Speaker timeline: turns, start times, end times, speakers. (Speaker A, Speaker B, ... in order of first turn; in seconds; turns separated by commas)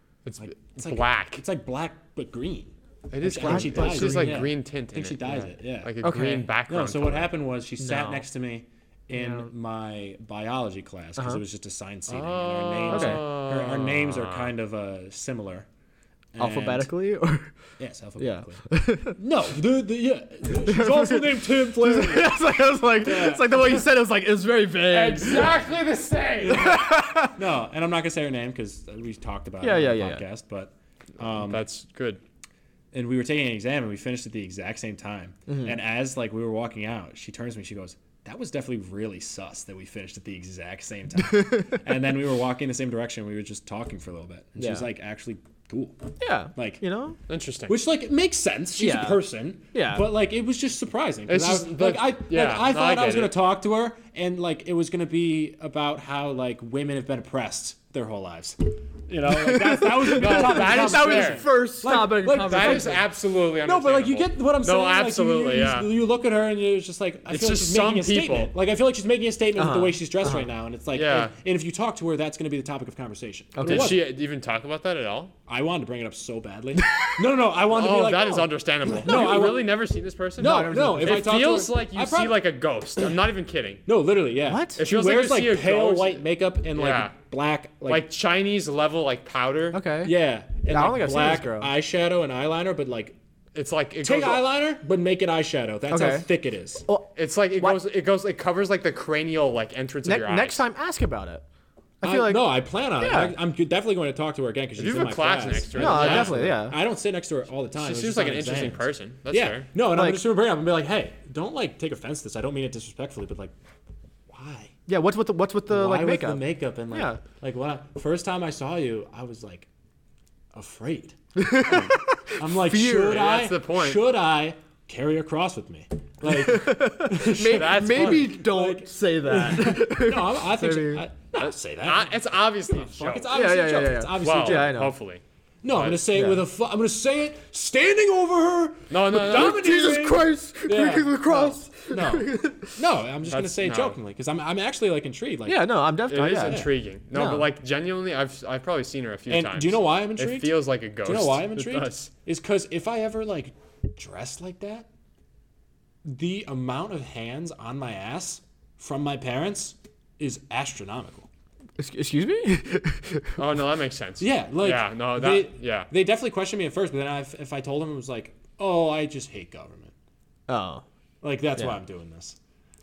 Speaker A: 0.3-1.4, Speaker B: 0.4-5.9, Speaker A: 3.1-7.3, Speaker C: 3.3-4.5, Speaker C: 6.0-6.5, Speaker B: 6.7-15.7, Speaker C: 7.8-8.3, Speaker C: 9.1-9.5, Speaker C: 11.2-11.4, Speaker A: 12.1-14.5, Speaker C: 12.9-13.2, Speaker B: 16.3-16.9, Speaker C: 16.4-17.5, Speaker B: 17.8-18.6, Speaker C: 18.2-19.2, Speaker B: 19.2-22.4, Speaker C: 20.5-25.6, Speaker B: 23.0-23.9, Speaker A: 24.9-26.8, Speaker B: 26.4-31.6, Speaker C: 26.5-27.4, Speaker C: 29.6-30.2, Speaker A: 31.3-32.2, Speaker B: 32.9-46.8, Speaker C: 35.5-35.8, Speaker C: 41.3-41.7, Speaker C: 44.6-44.9, Speaker C: 46.2-47.2, Speaker A: 47.3-47.8, Speaker B: 47.7-74.0, Speaker C: 48.8-50.1, Speaker A: 51.3-53.4, Speaker C: 59.3-63.0, Speaker A: 60.1-61.5, Speaker A: 62.4-65.9, Speaker A: 67.3-68.5, Speaker C: 69.6-70.5, Speaker A: 70.9-71.3, Speaker C: 73.5-74.0, Speaker A: 73.6-75.3, Speaker B: 75.5-79.8, Speaker C: 76.8-77.3, Speaker A: 77.7-83.8, Speaker C: 79.0-79.5, Speaker B: 80.4-82.5, Speaker C: 80.4-81.5, Speaker B: 83.9-88.1, Speaker C: 84.5-84.8, Speaker A: 84.8-86.2, Speaker A: 86.8-87.1, Speaker A: 87.9-89.8, Speaker C: 89.7-90.2, Speaker B: 90.0-93.2, Speaker C: 90.7-91.7, Speaker A: 93.5-94.5, Speaker B: 94.0-96.9, Speaker C: 95.9-96.3, Speaker C: 96.9-97.8, Speaker A: 97.2-100.6, Speaker C: 100.0-101.4, Speaker C: 102.0-103.4, Speaker B: 102.0-113.5, Speaker A: 104.8-106.4, Speaker C: 105.8-106.8, Speaker A: 107.8-109.7, Speaker C: 109.8-110.2, Speaker B: 114.3-114.7, Speaker C: 114.9-117.2, Speaker B: 115.7-119.7, Speaker B: 120.5-134.9, Speaker C: 121.4-123.3, Speaker A: 123.1-124.0, Speaker C: 126.2-131.1, Speaker A: 127.3-128.4, Speaker A: 131.4-133.3, Speaker C: 133.3-134.9, Speaker A: 134.2-136.0, Speaker B: 135.6-145.8, Speaker C: 136.1-136.4, Speaker A: 138.9-139.6, Speaker C: 139.1-142.8, Speaker A: 143.3-144.0, Speaker C: 145.5-147.5, Speaker A: 146.1-152.1, Speaker B: 146.3-146.7, Speaker B: 149.3-154.9, Speaker B: 156.1-161.3, Speaker C: 161.8-163.4, Speaker A: 163.4-165.9, Speaker B: 164.2-169.9, Speaker C: 170.5-170.8, Speaker B: 171.2-172.4